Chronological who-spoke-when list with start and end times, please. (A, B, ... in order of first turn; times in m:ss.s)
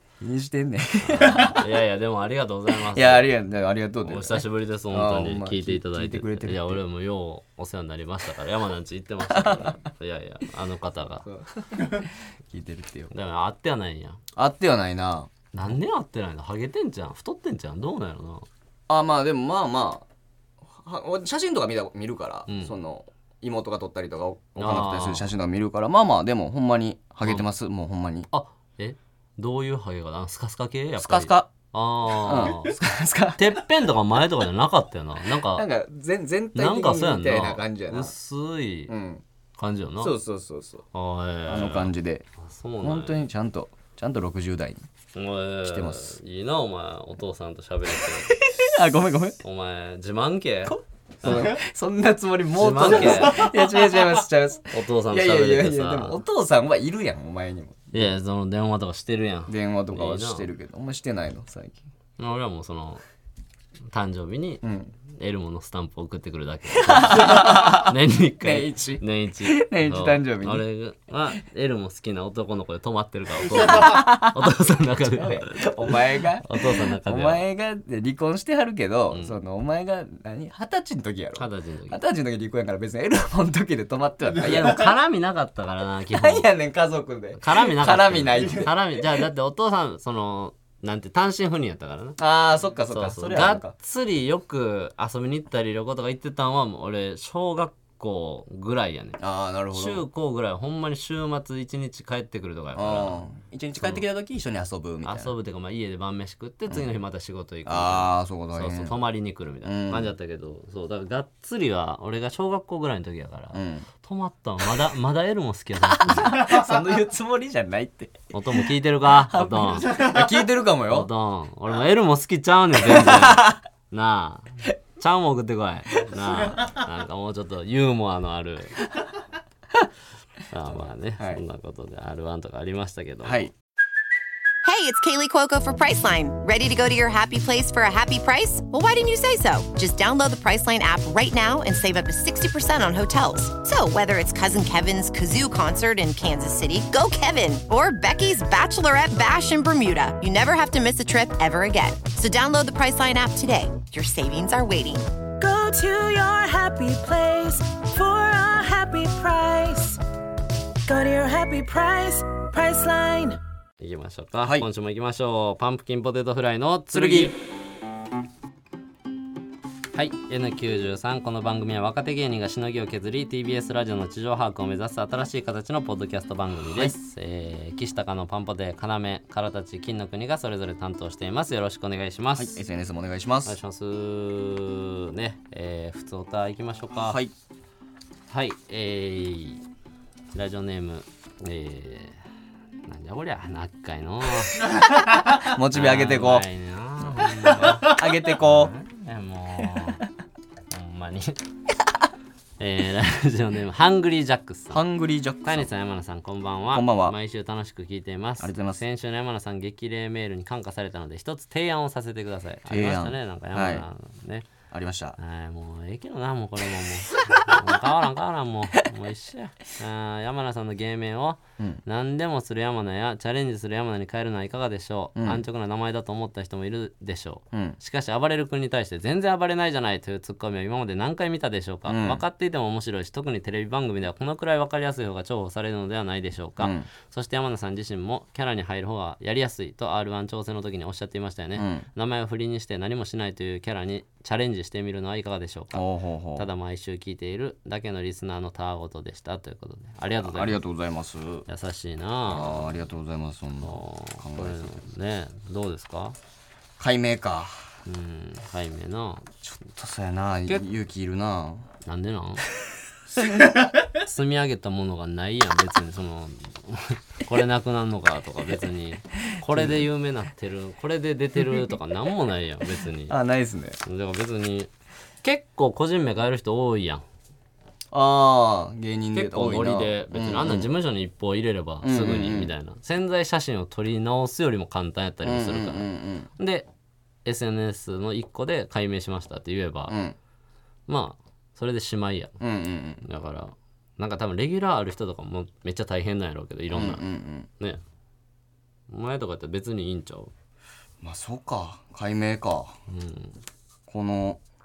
0:00.2-0:01.6 A
0:01.0-0:03.3 B
0:02.9-0:06.8 A
0:04.0-0:11.2 B
0:09.3-0:09.7 A
0:11.2-0:13.1 A
0:13.1-0:14.2 B
0:14.3-0:15.3 A
0:15.5-0:18.5 B
0:18.9-0:20.0 A
0:20.7-0:28.3 A
0:22.5-0:22.7 B
0:24.6-0:25.2 B
0:28.3-0:32.7 B
0:31.0-0:31.5 A
0:32.1-0:33.6 A
0:33.4-0:35.6 B
0:35.5-0:38.1 A
0:36.5-0:38.9 B
0:38.9-0:39.2 A
0:39.6-0:40.2 B
0:40.0-0:40.8 A
0:40.9-0:43.2 B
0:41.5-0:42.2 A
0:42.8-0:44.8 A
0:45.1-0:48.5 B
0:45.6-0:46.1 A
0:48.4-0:49.4 A
0:49.4-0:51.6 B
0:50.7-0:58.1 A
0:52.6-0:53.5 B
0:54.7-0:56.2 B
0:57.9-1:00.5 B
0:59.5-1:01.8 A
1:02.2-1:03.0 B
1:03.9-1:17.4 B
1:04.6-1:04.9 A
1:06.7-1:10.6 A
1:13.4-1:14.5 A
1:15.1-1:24.9 A
1:19.1-1:19.4 B
1:21.4-1:22.0 B
1:24.4-1:26.5 B
1:26.1-1:29.2 A
1:27.4-1:32.2 B
1:32.2-1:33.7 A
1:32.9-1:39.2 B
1:39.2-1:40.0 A
1:39.7-1:43.2 B
1:42.7-1:45.3 A
1:43.8-1:44.0 B
1:45.0-1:56.4 B
1:47.6-1:49.0 A
1:49.6-1:50.1 A
1:53.5-1:53.9 A
1:56.0-1:58.3 A
1:58.3-2:00.1 B
1:59.3-2:01.1 A
2:00.9-2:08.9 B
2:02.8-2:03.6 A
2:10.5-2:13.5 B
2:10.7-2:11.4 A
2:13.2-2:13.5 A
2:14.6-2:35.1 C
2:35.4-2:40.0 D
2:40.8-2:43.4 D
2:43.8-2:47.4 B
2:46.9-2:47.4 A
2:49.9-3:02.6 B
3:02.3-3:03.6 A
3:03.4-3:07.2 B
3:07.0-3:07.3 A
3:08.3-3:09.6 B
3:10.3-3:12.2 B
3:12.8-3:14.7 B
3:14.9-3:16.5 A
3:15.7-3:20.0 B
3:17.2-3:18.7 A
3:20.7-3:21.4 B
3:22.6-3:24.8 B
3:24.7-3:25.7 A
3:25.4-3:34.5 B
3:26.7-3:27.2 A
3:28.4-3:28.8 A
3:32.7-3:33.8 A
3:34.7-3:35.2 A
3:35.2-4:05.8 B
3:45.2-3:45.4 A
3:47.5-3:47.8 A
3:51.9-3:52.2 A
3:56.6-3:56.9 A
4:01.6-4:01.8 A
4:05.7-4:06.5 A
4:06.4-4:10.6 B
4:10.2-4:11.5 A
4:11.5-4:12.8 B
4:12.3-4:14.8 A
4:13.6-4:16.2 B
4:16.8-4:17.7 A
4:17.8-4:19.3 B
4:19.4-4:21.7 A
4:21.8-4:22.4 B
4:23.2-4:23.4 A
4:23.8-4:33.2 B
4:29.5-4:29.8 A
4:33.1-4:33.8 A
4:33.8-4:34.7 B
4:35.2-4:37.0 B
4:37.9-4:40.7 A
4:39.1-4:46.6 B
4:41.8-4:42.5 A
4:45.2-4:46.3 A
4:47.2-4:49.9 B
4:49.9-4:50.2 A
4:50.9-4:52.3 B
4:52.4-4:53.0 A
4:53.0-4:57.0 B
4:56.7-4:57.5 A
4:58.9-5:00.3 B
5:01.0-5:02.7 A
5:02.9-5:03.4 B
5:03.9-5:04.4 A